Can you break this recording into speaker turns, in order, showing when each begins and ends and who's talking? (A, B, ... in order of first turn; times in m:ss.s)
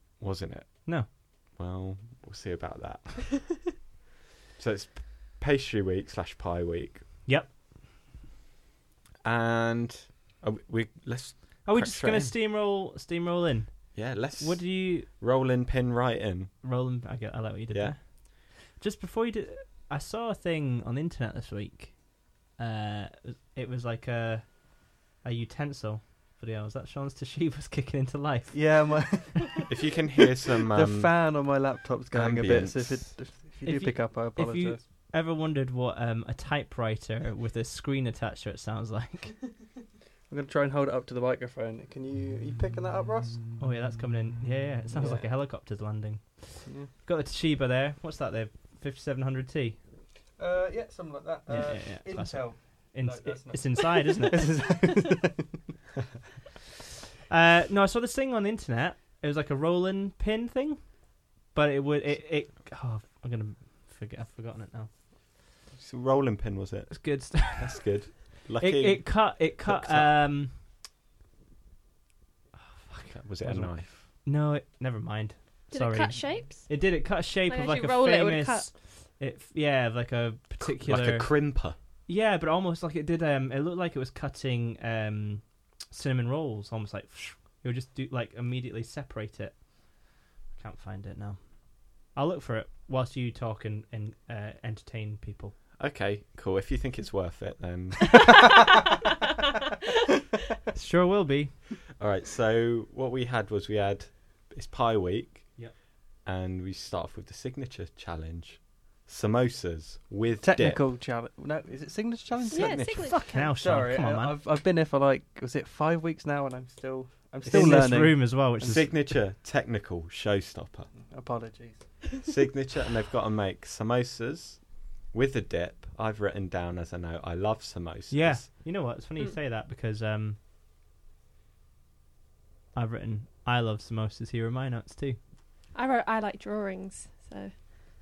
0:00.2-0:03.6 A
0:04.6-0:07.0 A
0:07.2-0:07.5 B
0:09.2-0:12.3 A
0:11.6-0:15.1 B
0:13.9-0:16.5 A
0:16.6-0:29.0 B
0:28.5-0:30.0 C
0:29.7-0:31.3 A
0:30.7-0:34.8 C
0:32.1-0:33.2 A
0:33.6-0:39.4 B
0:40.3-0:43.6 C
0:43.6-0:49.8 B
0:44.9-0:45.3 C
0:50.4-0:55.5 C
0:51.5-0:54.6 B
0:57.3-1:04.9 B
1:05.7-1:10.2 A
1:06.9-1:07.8 B
1:08.6-1:10.5 B
1:12.6-1:21.5 B
1:13.1-1:14.0 A
1:15.7-1:16.7 D
1:17.5-1:18.7 D
1:20.6-1:21.8 A
1:22.1-1:29.6 B
1:30.5-1:35.6 B
1:35.8-1:38.2 A
1:40.7-1:41.5 B
1:42.0-1:50.8 A
1:50.4-1:58.8 C
1:52.5-1:53.2 A
1:52.5-1:53.5 D
1:52.9-1:54.4 B
1:57.4-1:59.2 B
1:57.4-2:00.9 A
2:00.9-2:02.2 C
2:02.2-2:08.5 A
2:08.1-2:10.4 B
2:12.7-2:15.2 B
2:15.7-2:17.5 D